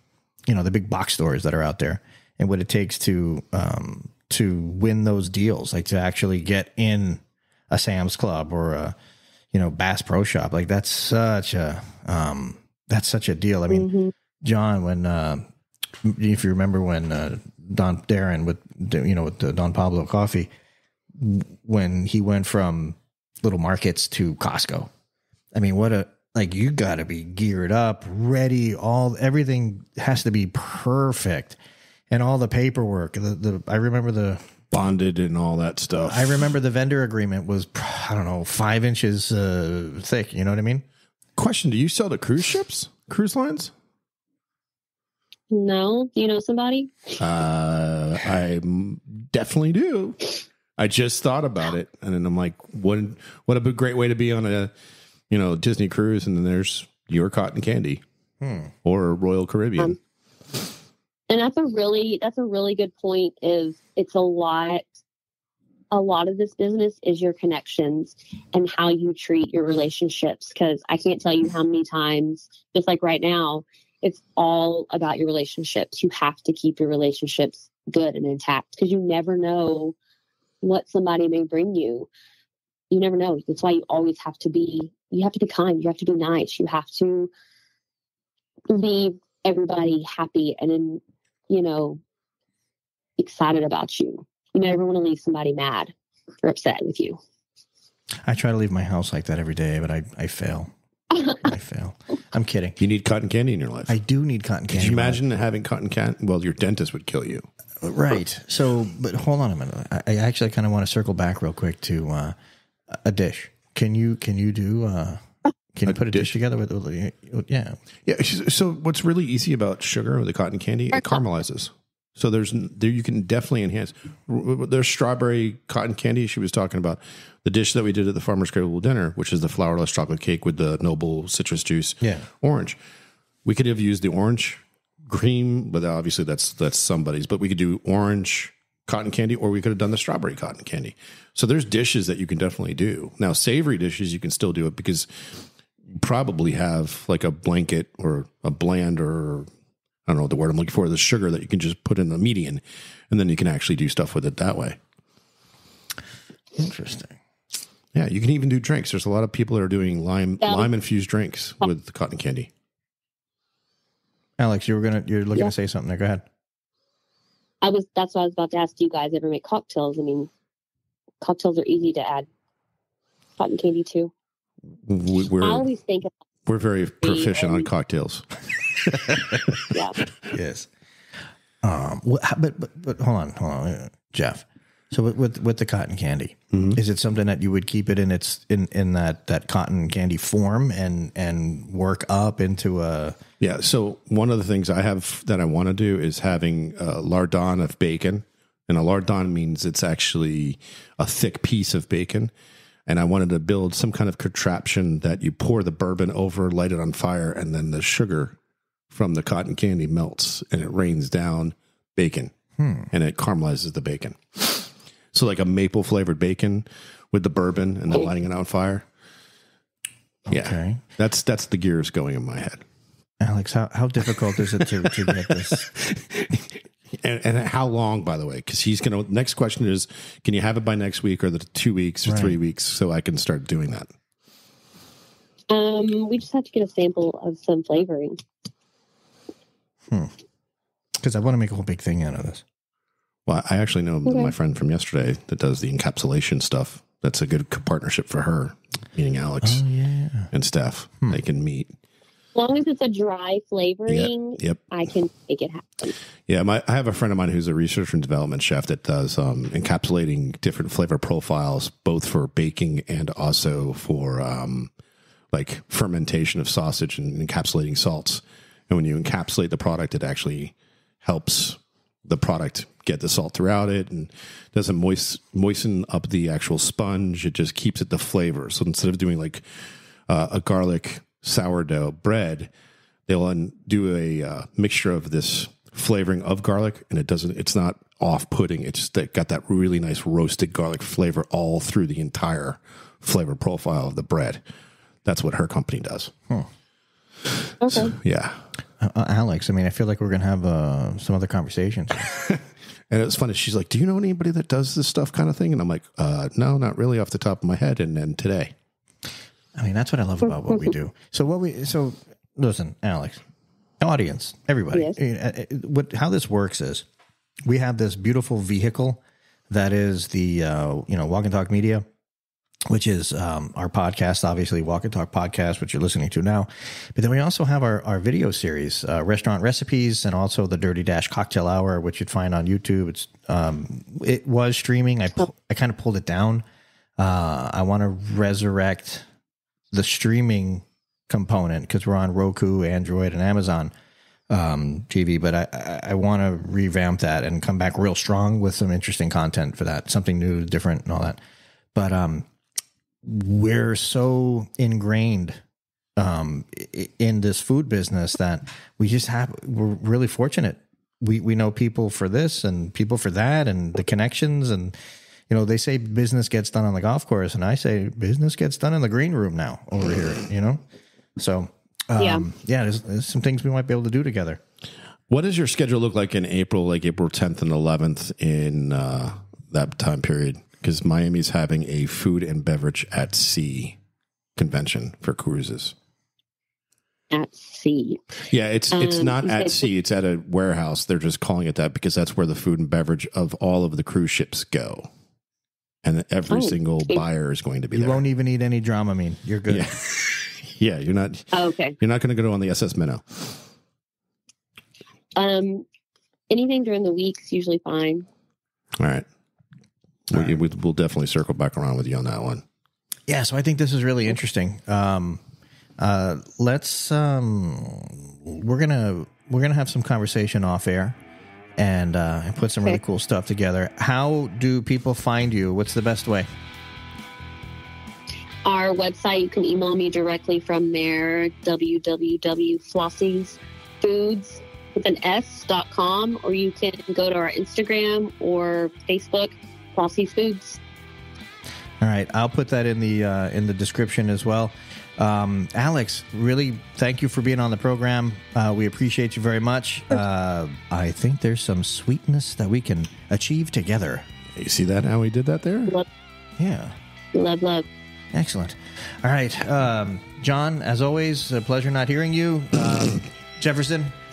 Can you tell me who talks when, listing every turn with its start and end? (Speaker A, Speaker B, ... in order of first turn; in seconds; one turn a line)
Speaker A: 0.5-8.9
Speaker A: 9.5-13.9
Speaker B: 13.7-14.1
Speaker A: 14.4-15.4
Speaker A: 16.0-20.5
Speaker A: 21.1-24.9
Speaker A: 25.5-31.6
Speaker A: 32.1-34.5
Speaker C: 34.7-36.5
Speaker A: 36.0-40.8
Speaker C: 41.4-43.7
Speaker B: 45.5-47.2
Speaker C: 47.2-54.7
Speaker C: 55.3-58.0
Speaker A: 58.4-58.7
Speaker C: 58.8-60.0
Speaker B: 61.3-64.8
Speaker B: 65.9-79.9
Speaker B: 80.6-82.1
Speaker B: 82.9-87.3
Speaker B: 88.7-92.0
Speaker B: 93.2-95.9
Speaker B: 96.4-97.2
Speaker A: 98.2-100.7
Speaker A: 101.2-102.8
Speaker C: 102.8-103.9
Speaker A: 103.9-105.2
Speaker C: 104.7-107.5
Speaker A: 107.8-112.3
Speaker A: 112.9-115.2
Speaker A: 115.7-117.8
Speaker C: 115.9-116.3
Speaker C: 118.0-132.8
Speaker B: 120.9-121.2
Speaker A: 132.0-132.3
Speaker C: 133.4-145.4
Speaker C: 145.9-149.5
Speaker C: 150.1-154.8
Speaker A: 156.6-157.2
Speaker C: 157.9-162.5
Speaker B: 160.4-160.7
Speaker A: 164.4-166.2
Speaker B: 167.6-170.3
Speaker B: 171.2-172.3
Speaker B: 173.4-174.1
Speaker C: 174.8-175.7
Speaker B: 175.4-176.1
Speaker C: 176.5-179.7
Speaker B: 177.0-177.7
Speaker B: 179.7-180.0
Speaker A: 180.3-180.7
Speaker A: 181.6-193.2
Speaker C: 186.5-186.8
Speaker C: 193.4-202.3
Speaker C: 202.9-208.3
Speaker C: 208.9-212.3
Speaker A: 212.6-212.9
Speaker C: 212.9-218.9
Speaker A: 220.3-220.8
Speaker C: 220.3-222.6
Speaker A: 223.2-225.7
Speaker C: 224.6-233.9
Speaker A: 232.1-232.4
Speaker B: 235.5-238.2
Speaker A: 241.0-242.4
Speaker C: 243.2-249.6
Speaker B: 244.1-244.3
Speaker A: 249.4-250.3
Speaker C: 250.3-251.7
Speaker B: 252.3-256.0
Speaker C: 253.9-254.6
Speaker C: 256.3-264.7
Speaker C: 265.3-279.4
Speaker C: 280.1-282.5
Speaker C: 283.1-294.4
Speaker C: 295.0-296.1
Speaker C: 297.4-298.4
Speaker B: 297.6-297.9
Speaker A: 298.8-302.1
Speaker C: 302.1-308.5
Speaker A: 309.6-313.2
Speaker A: 313.8-316.9
Speaker A: 317.4-321.8
Speaker A: 322.7-336.4
Speaker A: 337.0-339.1
Speaker A: 339.7-343.7
Speaker A: 344.3-351.2
Speaker A: 351.7-352.3
Speaker A: 353.0-355.4
Speaker A: 356.0-364.8
Speaker A: 365.3-370.6
Speaker A: 371.2-374.4
Speaker B: 372.0-372.2
Speaker C: 375.1-383.8
Speaker C: 384.4-385.7
Speaker B: 387.1-388.0
Speaker C: 388.3-394.9
Speaker B: 388.7-389.7
Speaker C: 395.8-398.0
Speaker B: 396.3-397.0
Speaker A: 397.7-399.7
Speaker C: 399.5-403.4
Speaker B: 401.3-401.8
Speaker B: 405.1-405.6
Speaker B: 406.3-408.1
Speaker C: 408.8-409.1
Speaker C: 410.1-412.4
Speaker A: 413.1-415.2
Speaker A: 415.8-421.0
Speaker A: 421.6-426.3
Speaker B: 428.4-440.6
Speaker A: 441.8-454.1
Speaker C: 454.3-455.7
Speaker A: 456.4-456.8
Speaker B: 457.1-457.6
Speaker A: 458.1-463.9